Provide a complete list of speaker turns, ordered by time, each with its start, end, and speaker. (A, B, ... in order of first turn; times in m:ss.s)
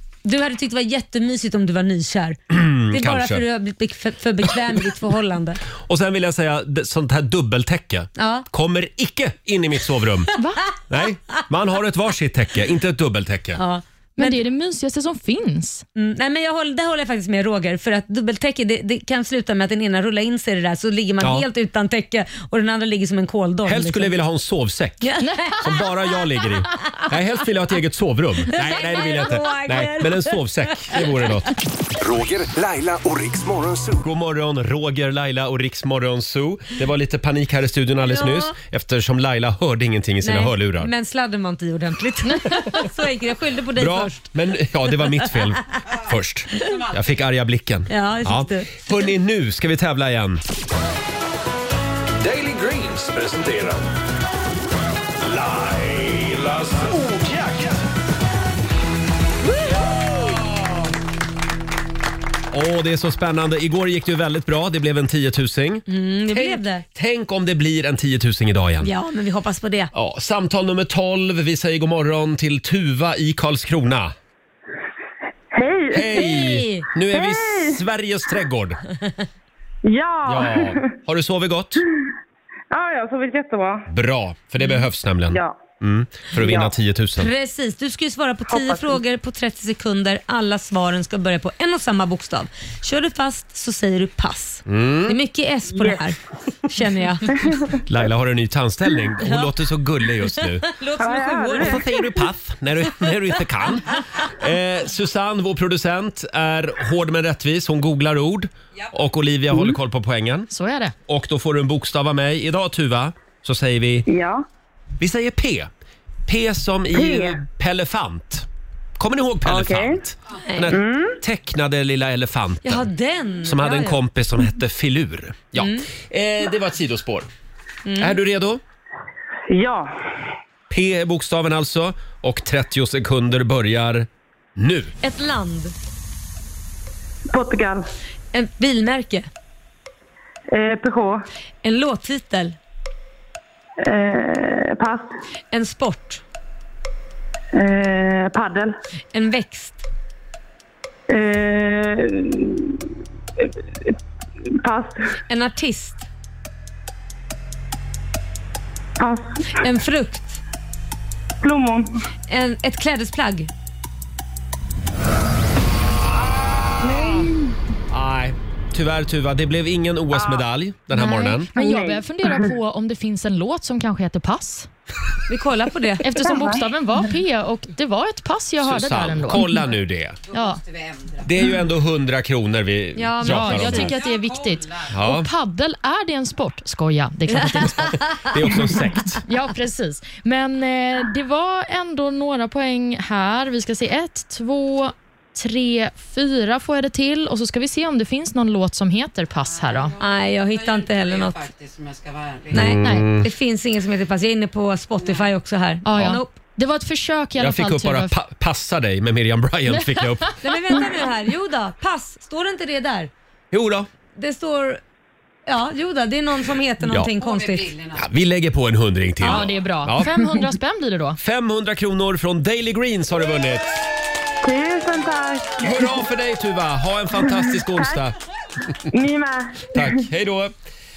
0:00.2-0:02.4 A
0:02.5-0:03.4 B
0:02.9-0:05.6 A
0:05.9-0:10.3 B
0:08.2-0:08.5 A
0:10.4-0:10.6 C
0:10.9-0:13.6 B
0:13.6-0:14.4 A
0:14.2-0:15.9 C
0:16.0-0:24.2 A
0:21.2-0:21.5 B
0:23.7-0:31.6 B
0:25.0-0:25.9 A
0:25.2-0:25.6 C
0:28.5-0:31.3 A
0:32.0-0:34.0 D
0:34.0-0:40.9 B
0:38.0-0:38.5 A
0:40.2-0:44.3 A
0:43.8-0:50.4 B
0:47.9-0:49.1 A
0:52.2-0:53.8 D
0:55.3-0:57.8 D
1:02.5-1:08.9 B
1:05.9-1:06.8 A
1:08.8-1:09.9 A
1:09.9-1:14.1 B
1:15.5-1:16.4 E
1:15.9-1:18.8 B
1:16.2-1:16.9 A
1:17.1-1:17.8 E
1:19.8-1:20.8 E
1:20.3-1:21.8 B
1:22.7-1:23.9 E
1:23.9-1:27.3 B
1:25.3-1:25.6 E
1:26.4-1:26.7 E
1:27.2-1:36.2 A
1:28.5-1:29.0 E
1:34.7-1:35.2 B
1:35.7-1:36.1 E
1:36.7-1:37.4 A
1:37.4-1:37.8 E
1:37.8-1:40.7 B
1:39.2-1:39.5 A
1:40.4-1:41.8 A
1:41.0-1:42.0 E
1:41.6-1:50.5 B
1:50.5-1:51.0 C
1:51.1-1:54.1 B
1:54.1-1:54.4 E
1:55.0-1:55.7 B
1:56.3-1:58.5 B
1:56.9-1:57.4 E
1:59.0-2:02.9 B
1:59.4-2:00.0 E
2:00.7-2:01.2 E
2:02.6-2:04.0 A
2:03.4-2:07.3 B
2:05.6-2:05.9 A
2:07.9-2:08.2 A
2:08.0-2:08.6 B
2:09.5-2:09.9 E
2:10.7-2:14.9 B
2:15.0-2:15.8 A
2:17.3-2:17.9 E
2:18.3-2:19.3 A
2:20.5-2:21.2 E
2:21.6-2:22.6 A
2:23.8-2:25.1 E
2:25.5-2:26.2 A
2:27.5-2:28.7 E
2:29.1-2:29.9 A
2:31.1-2:32.8 E
2:33.4-2:33.9 E
2:34.6-2:35.0 E
2:35.3-2:36.0 A
2:39.0-2:39.6 E
2:39.6-2:40.4 A
2:41.4-2:41.9 E
2:42.3-2:43.5 A
2:46.8-2:47.6 E
2:47.9-2:51.5 B
2:50.9-2:54.7 C
2:51.6-2:52.5 E
2:55.3-2:56.1 A
2:56.0-2:59.6 C
2:56.0-2:56.6 E
2:58.6-3:00.2 B
3:00.3-3:00.6 C
3:00.4-3:01.1 F
3:01.2-3:04.0 B
3:03.0-3:03.9 A
3:03.2-3:08.0 C
3:04.2-3:04.6 F
3:04.9-3:05.3 B
3:07.5-3:08.2 A
3:08.1-3:09.3 B
3:09.2-3:20.0 C
3:20.0-3:21.5 A
3:20.6-3:22.6 F
3:22.5-3:23.3 B
3:22.5-3:26.3 A
3:22.6-3:23.1 C
3:25.8-3:28.2 C
3:25.9-3:26.2 B
3:27.4-3:30.4 B
3:30.4-3:33.1 A
3:33.5-3:33.9 B
3:34.2-3:34.8 A
3:35.5-3:37.8 A
3:37.2-3:38.0 F
3:37.9-3:40.2 B
3:39.2-3:41.2 C
3:41.2-3:43.8 B
3:44.4-3:46.0 E
3:45.6-3:48.2 B
3:47.2-3:47.9 E
3:48.9-3:49.9 E
3:49.7-3:50.5 B